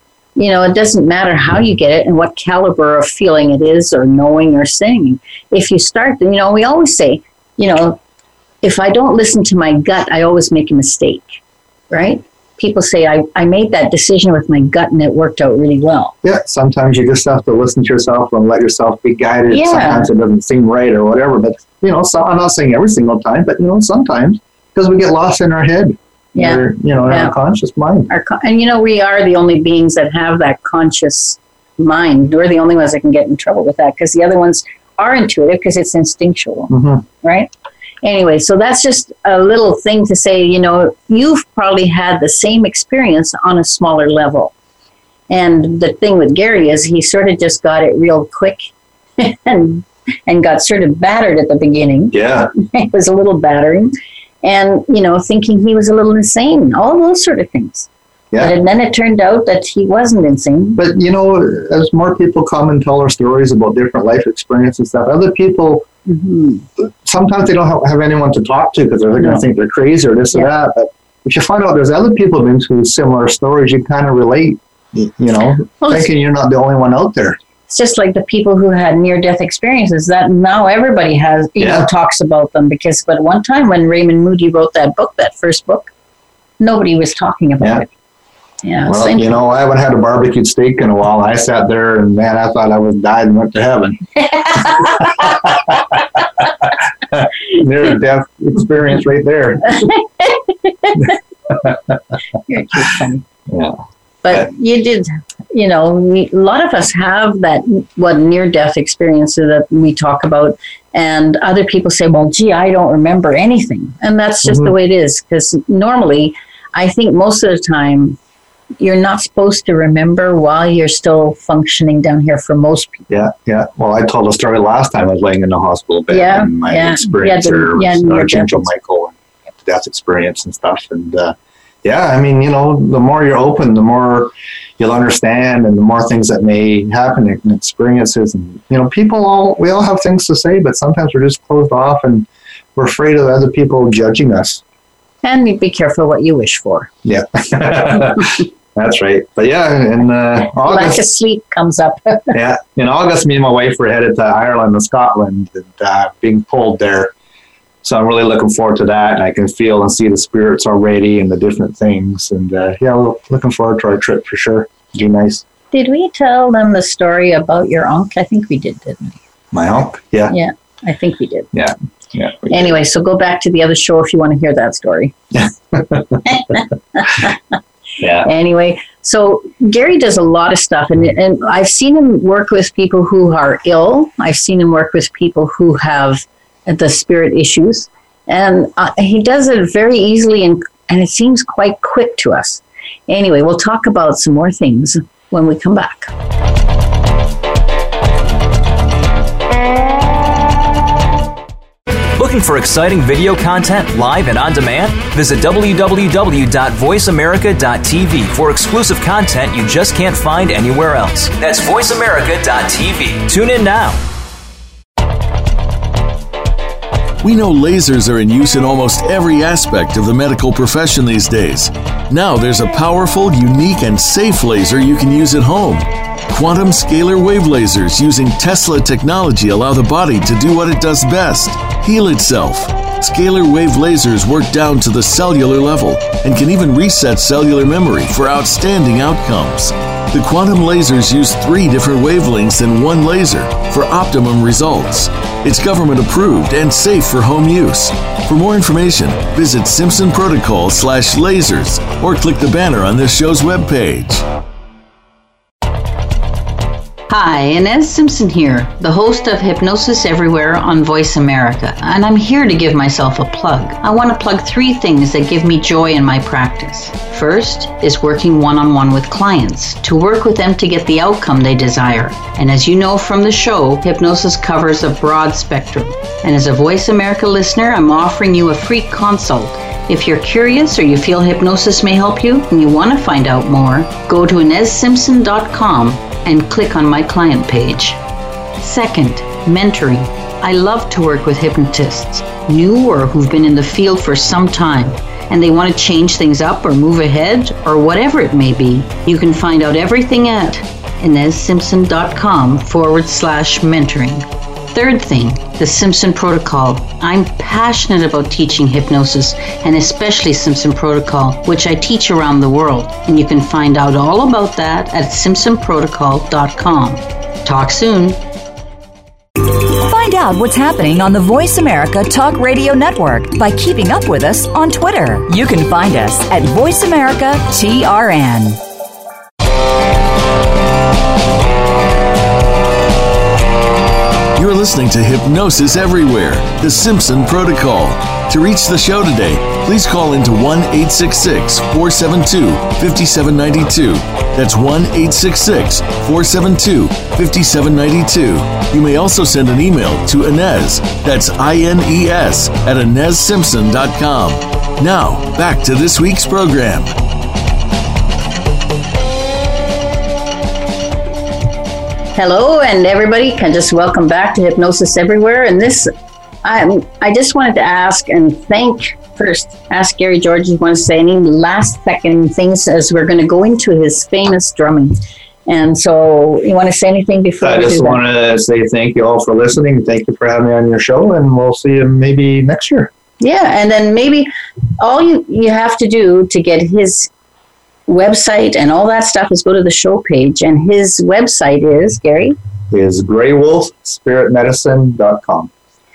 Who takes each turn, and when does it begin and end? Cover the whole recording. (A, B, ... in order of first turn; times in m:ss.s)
0:00.4-0:08.0 A
0:08.6-0:11.2 A
0:11.9-0:16.1 A
0:16.2-0:28.1 B
0:19.5-0:20.1 A
0:26.3-0:27.3 A
0:28.1-0:37.5 A
0:36.7-0:37.0 B
0:38.0-0:44.5 A
0:45.3-0:53.9 A
0:52.1-0:52.5 B
0:54.4-1:00.8 A
1:00.8-1:05.8 B
1:06.0-1:06.6 A
1:06.8-1:17.4 B
1:15.8-1:16.1 A
1:17.7-1:25.9 A
1:21.6-1:21.9 B
1:26.6-1:27.9 A
1:28.6-1:29.3 A
1:28.9-1:39.9 B
1:34.3-1:35.1 A
1:39.8-1:41.1 A
1:41.5-1:41.9 B
1:42.5-1:43.2 A
1:43.5-1:44.5 B
1:44.2-1:58.2 A
1:54.4-1:54.7 B
1:58.8-2:03.1 A
2:03.1-2:24.6 B
2:06.1-2:08.7 A
2:25.2-2:26.9 A
2:27.0-2:31.0 B
2:30.6-2:32.3 A
2:32.3-2:37.1 B
2:37.8-2:45.4 B
2:45.7-2:49.2 A
2:49.5-2:50.3 B
2:50.3-2:51.5 A
2:51.5-2:52.8 B
2:52.5-2:55.1 A
2:55.3-2:56.2 B
2:56.2-2:57.4 A
2:58.0-2:58.3 B
2:58.2-3:16.1 A
3:22.2-3:34.0 C
3:37.2-4:14.2 D
4:17.1-4:48.0 A
4:48.6-5:18.2 A
5:19.4-5:28.6 E
5:34.4-5:56.9 D
6:02.1-6:05.9 A
6:06.4-6:15.0 A
6:15.5-6:18.0 A
6:17.4-6:22.9 B
6:23.2-6:27.1 A
6:27.9-6:32.3 A
6:32.7-6:35.5 B